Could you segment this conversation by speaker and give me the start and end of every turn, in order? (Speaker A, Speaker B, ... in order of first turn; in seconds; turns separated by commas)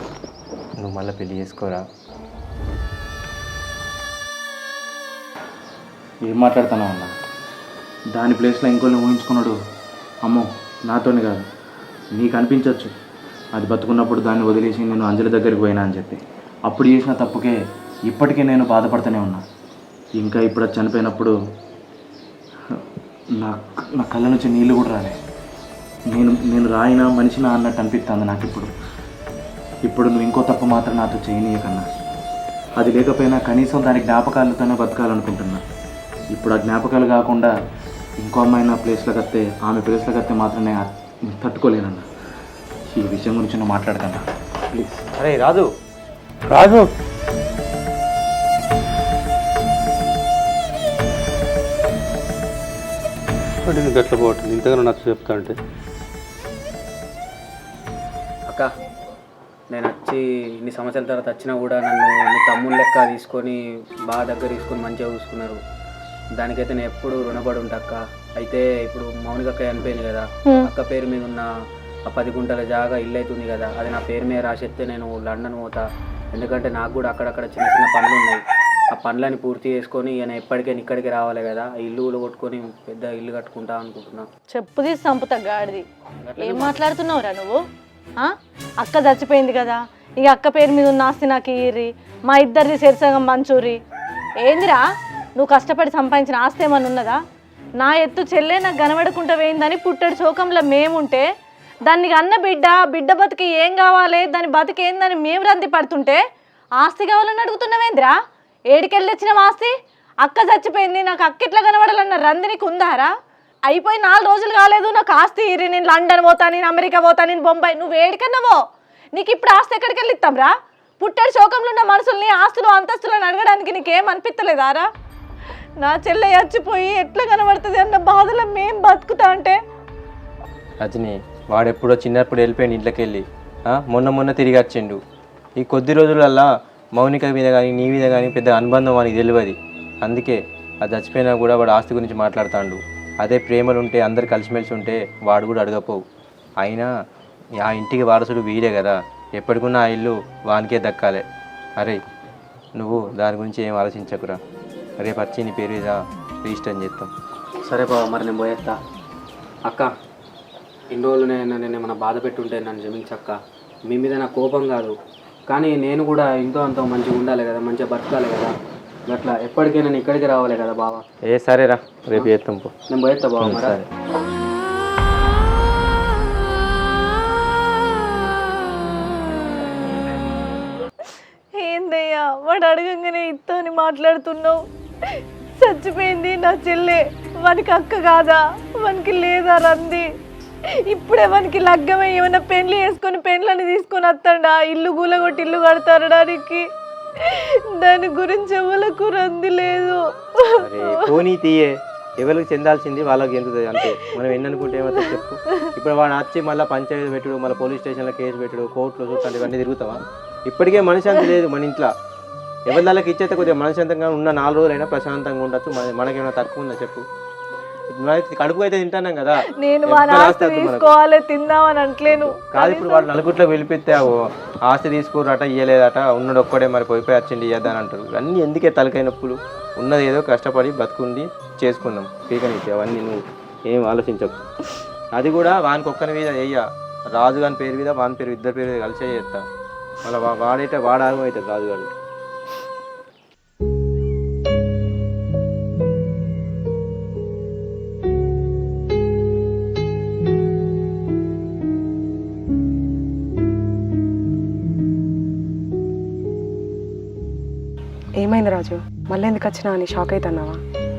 Speaker A: 0.8-1.8, Speaker B: 6.3-7.1, Speaker B: 8.2-9.6, Speaker B: 10.2-11.4, Speaker B: 12.2-12.9, Speaker B: 13.6-17.6, Speaker B: 18.1-19.4, Speaker B: 20.2-21.3, Speaker B: 23.4-25.2, Speaker B: 26.1-28.7, Speaker B: 29.9-31.9, Speaker B: 32.8-35.6, Speaker B: 36.3-37.5, Speaker B: 38.2-42.1, Speaker B: 42.9-44.2, Speaker B: 44.7-45.0, Speaker A: 45.2-45.7, Speaker C: 46.5-46.9, Speaker C: 53.6-55.6, Speaker D: 59.7-65.6, Speaker D: 66.4-71.5, Speaker D: 72.1-75.8, Speaker D: 76.3-78.4, Speaker D: 78.9-84.3, Speaker E: 84.5-85.8, Speaker D: 86.3-86.8, Speaker E: 86.4-87.6, Speaker E: 88.2-93.8, Speaker E: 94.4-94.8, Speaker E: 95.4-97.2, Speaker E: 97.8-101.2, Speaker E: 101.9-106.2, Speaker E: 106.8-108.1, Speaker E: 108.7-109.7, Speaker E: 110.2-113.1, Speaker E: 113.7-118.6, Speaker E: 119.2-120.5, Speaker E: 121.0-124.9, Speaker E: 125.8-129.6, Speaker A: 130.8-135.0, Speaker A: 135.6-146.0, Speaker A: 146.6-146.9, Speaker A: 147.6-151.2, Speaker A: 152.8-154.4, Speaker A: 155.0-157.1, Speaker D: 157.7-158.8, Speaker D: 160.9-163.4, Speaker D: 163.9-164.9, Speaker D: 165.5-168.5, Speaker D: 169.1-171.0, Speaker A: 171.3-172.7, Speaker D: 172.9-173.8, Speaker A: 173.4-173.8, Speaker E: 177.7-178.6, Speaker E: 181.6-184.6, Speaker E: 185.6-190.0, Speaker E: 190.9-196.6, Speaker E: 197.8-200.0, Speaker A: 200.6-211.9, Speaker A: 212.7-217.0, Speaker A: 218.0-221.0, Speaker E: 219.6-223.0, Speaker A: 222.1-233.2, Speaker A: 233.7-234.4, Speaker A: 235.2-236.6, Speaker A: 237.2-239.4, Speaker A: 240.0-241.9, Speaker F: 258.2-260.6